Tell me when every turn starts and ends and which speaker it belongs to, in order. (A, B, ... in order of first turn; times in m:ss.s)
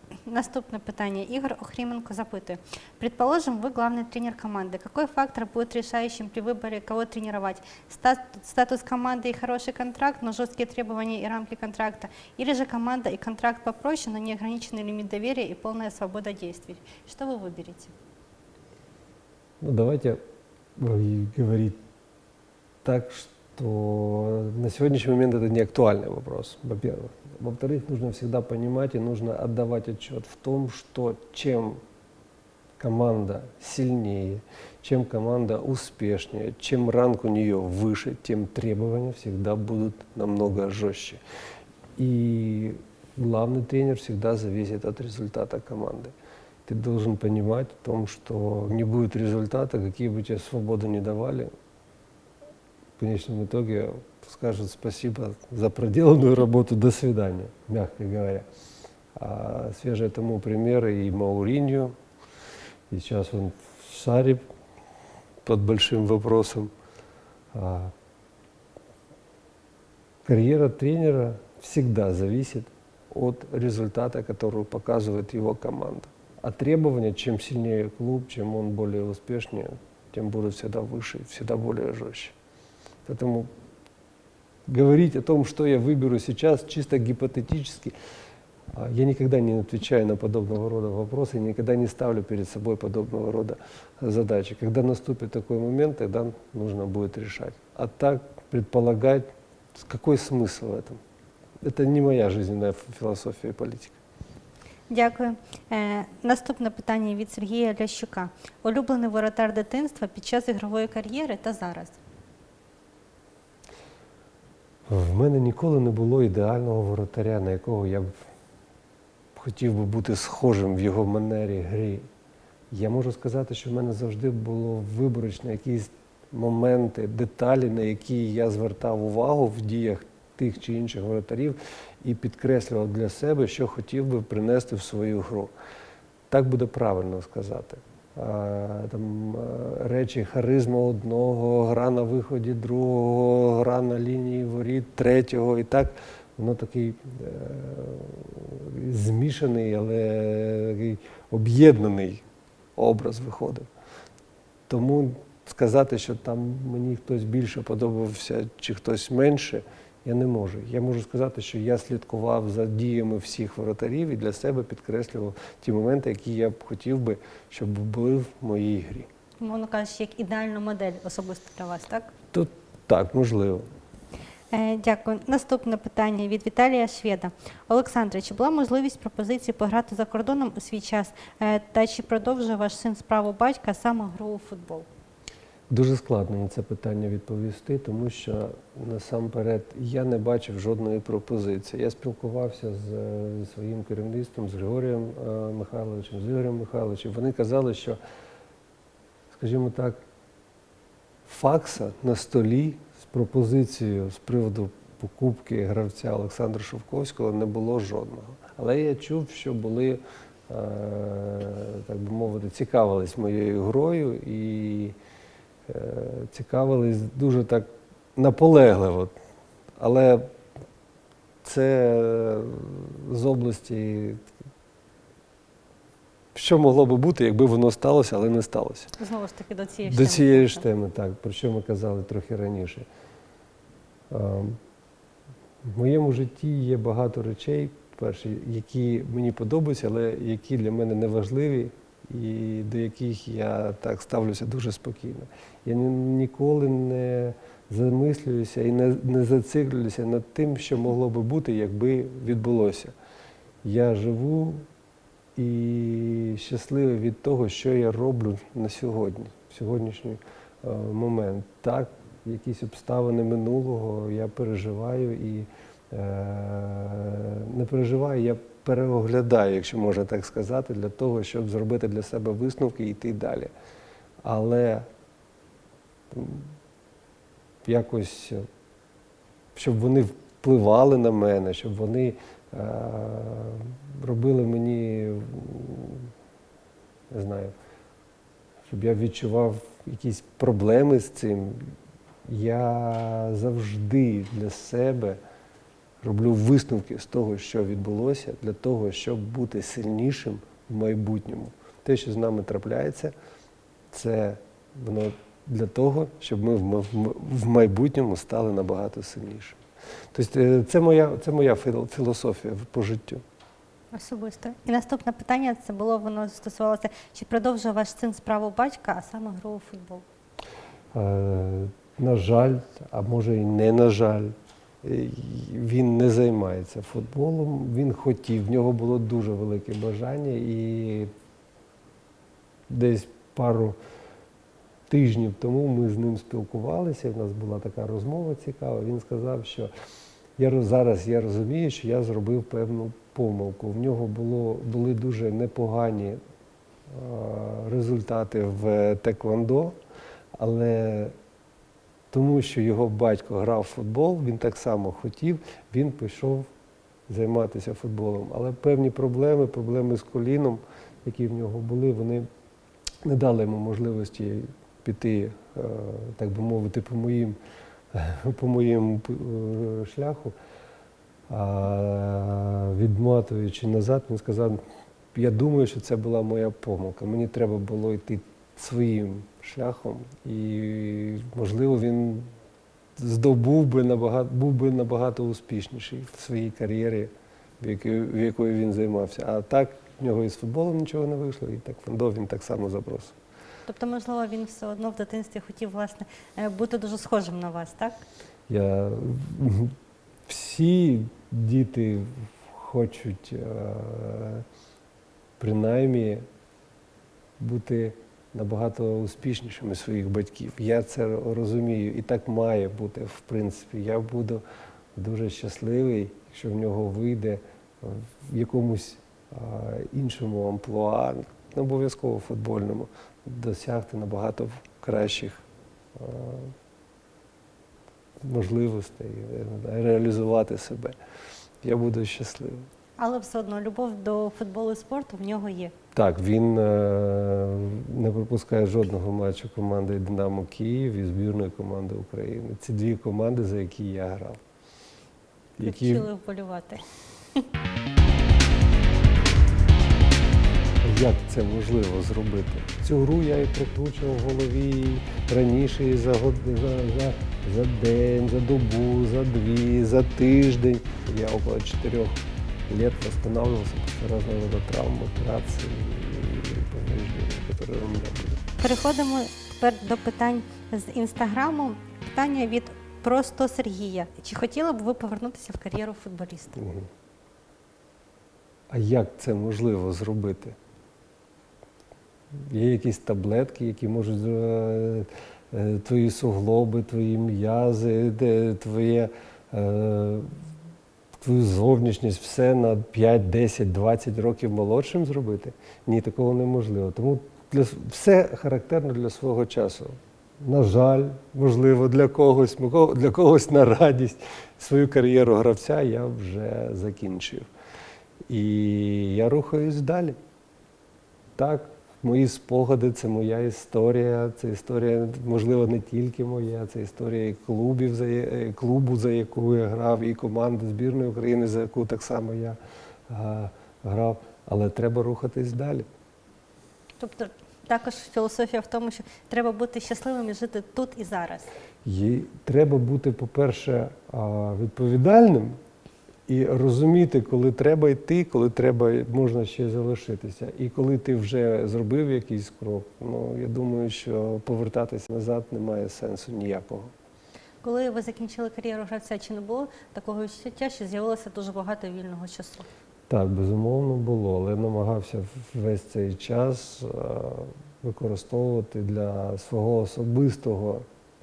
0:00.3-0:17.9 A
0:19.6-0:20.2 B
0:20.8-0:21.8 B
0:22.8-0:31.8 B
0:32.8-0:41.2 B
0:42.0-0:46.1 B
0:46.7-0:51.5 B
0:53.0-0:58.5 B
0:59.2-1:01.9 B
1:02.9-1:04.4 B
1:05.4-1:06.7 B
1:07.5-1:07.9 B
1:10.2-1:22.4 B
1:23.1-1:23.5 B
1:24.7-1:27.9 B
1:28.7-1:41.0 B
1:41.6-1:44.0 B
1:44.9-1:52.0 A
1:54.9-1:58.1 B
1:59.4-2:02.1 B
2:02.7-2:15.5 B
2:16.3-2:32.2 B
2:32.8-2:33.7 B
2:34.7-2:49.1 B
2:49.4-2:52.1 A
2:52.3-2:53.7 B
2:54.5-3:04.9 A
3:05.7-3:18.0 B
3:19.3-3:20.0 B
3:21.3-3:35.0 B
3:35.7-3:39.1 B
3:39.8-3:40.3 B
3:41.4-3:44.2 B
3:46.4-3:48.9 B
3:49.0-3:50.6 A
3:49.9-3:52.9 B
3:54.1-3:54.6 B
3:55.6-4:12.9 B
4:13.6-4:14.7 B
4:15.4-4:33.5 B
4:34.2-4:34.9 B
4:36.1-4:36.5 B
4:37.6-4:38.4 B
4:39.6-4:46.1 B
4:47.1-4:47.6 B
4:48.7-4:51.7 B
4:52.3-4:55.2 B
4:56.0-5:03.1 B
5:03.9-5:09.6 B
5:10.1-5:13.2 B
5:13.9-5:20.0 A
5:20.9-5:31.1 B
5:32.7-5:33.8 B
5:34.9-5:39.7 B
5:40.4-5:46.2 B
5:46.9-5:49.8 B
5:50.4-5:51.2 B
5:52.1-5:56.5 B
5:57.1-6:02.3 B
6:03.0-6:07.4 B
6:07.9-6:10.3 B
6:11.3-6:14.6 B
6:15.1-6:22.3 B
6:23.0-6:33.2 B
6:33.7-6:38.0 A
6:38.5-6:39.8 B
6:40.3-6:44.4 B
6:45.4-6:46.2 B
6:47.4-6:54.4 B
6:55.0-7:05.4 B
7:06.0-7:06.5 B
7:08.2-7:11.0 B
7:11.6-7:12.7 B
7:13.0-7:15.7 A
7:15.9-7:24.4 B
7:25.6-7:26.1 B
7:25.6-7:26.8 A
7:30.8-7:48.4 B
7:48.6-7:56.6 A
7:56.6-7:56.9 B
7:58.7-8:00.6 B
8:02.4-8:10.3 B
8:11.2-8:27.5 B
8:28.3-8:30.2 B
8:31.4-8:42.6 B
8:43.1-8:45.9 B
8:47.0-8:51.5 A
8:51.8-8:55.6 B
8:56.3-9:06.9 B
9:07.6-9:12.7 A
9:13.1-9:20.9 B